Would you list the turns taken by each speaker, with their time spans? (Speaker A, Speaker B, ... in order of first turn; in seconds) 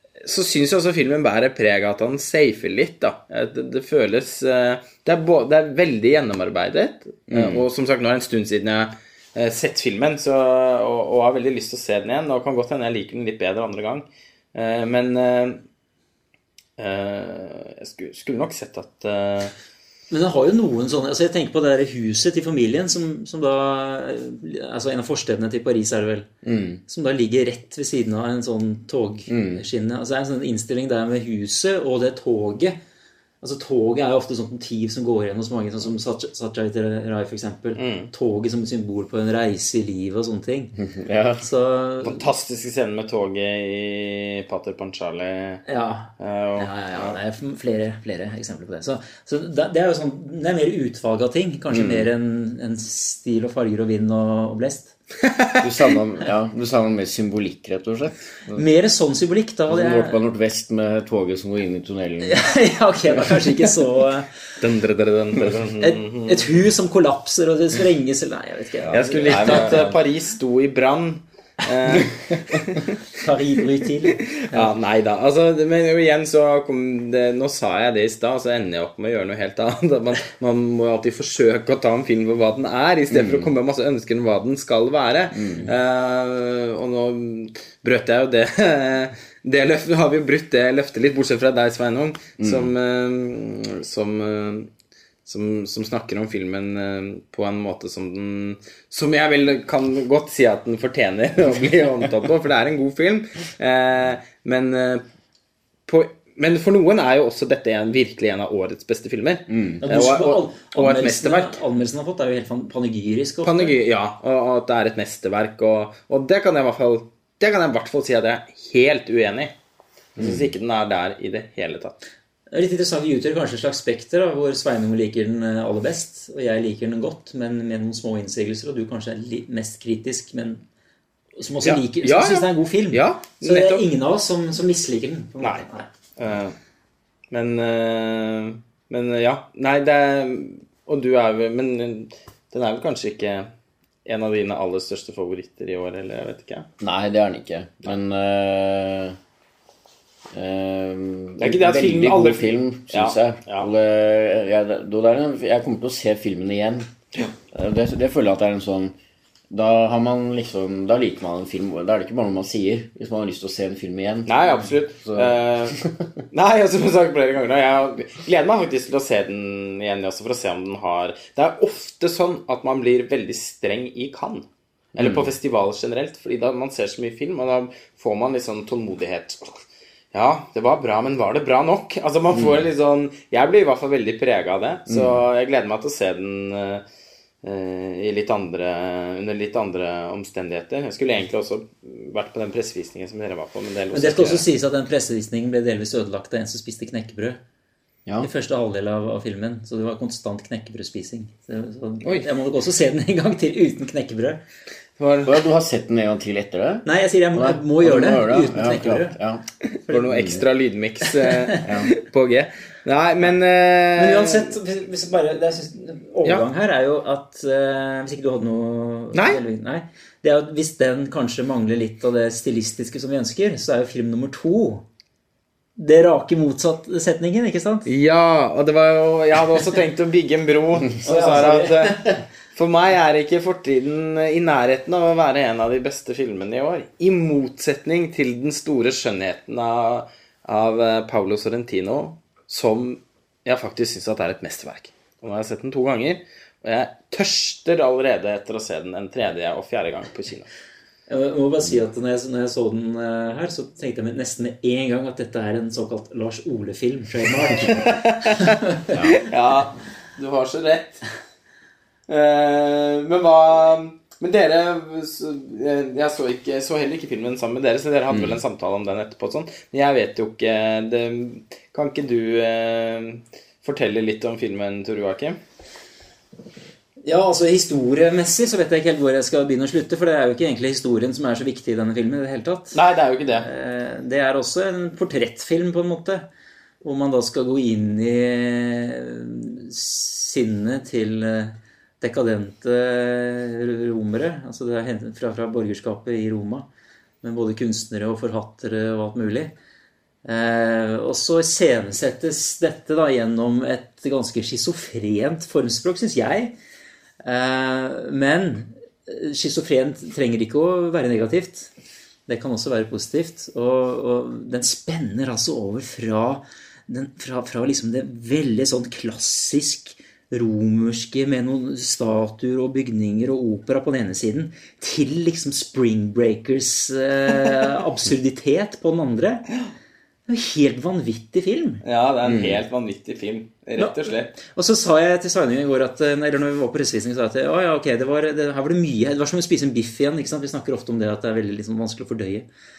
Speaker A: 0.2-15.6, 16.8-19.5, 37.8-38.1, 42.0-45.6, 46.2-47.2, 55.3-55.6, 64.6-66.5, 68.9-73.0, 74.2-94.7, 95.3-105.0, 105.9-111.6, 113.4-119.5, 120.2-122.0, 131.6-133.8, 135.4-135.7, 136.2-136.6, 137.3-143.5, 144.1-146.7, 151.4-153.7, 164.3-165.8, 166.3-186.8, 187.4-194.4, 205.0-205.4, 209.9-214.6, 219.1-219.4, 227.9-250.5, 257.7-261.1, 262.1-275.4, 282.7-283.5, 331.8-334.3
Speaker B: 7.3-7.7, 26.4-26.8, 29.3-29.6, 40.8-41.5, 51.7-52.1, 55.6-58.6, 59.7-62.5, 63.1-63.5, 68.8-70.0, 71.9-72.6, 83.1-83.5, 85.3-85.7, 92.4-92.7, 109.5-109.8, 120.2-120.5, 146.8-149.2, 150.3-156.9, 157.5-158.9, 159.5-164.4, 165.0-166.2, 174.9-175.3, 182.3-182.7, 184.9-185.2, 205.2-209.4, 210.0-210.4, 211.6-211.9, 268.1-268.4, 332.2-332.6
Speaker C: 20.1-26.3, 26.9-32.8, 33.4-40.8, 41.4-42.2, 45.7-55.0, 58.5-60.2, 62.2-64.5, 65.8-69.8, 73.2-74.7, 109.8-113.7, 122.5-130.6, 131.4-135.9, 193.9-197.4, 198.2-204.4, 206.8-209.2, 211.2-211.6, 214.0-224.8, 225.8-227.9, 231.0-232.2, 251.1-258.8, 277.0-282.8, 283.4-286.3, 286.8-296.7, 297.2-299.5, 300.2-306.5, 307.2-311.7, 312.3-329.5, 330.3-331.8, 333.8-342.5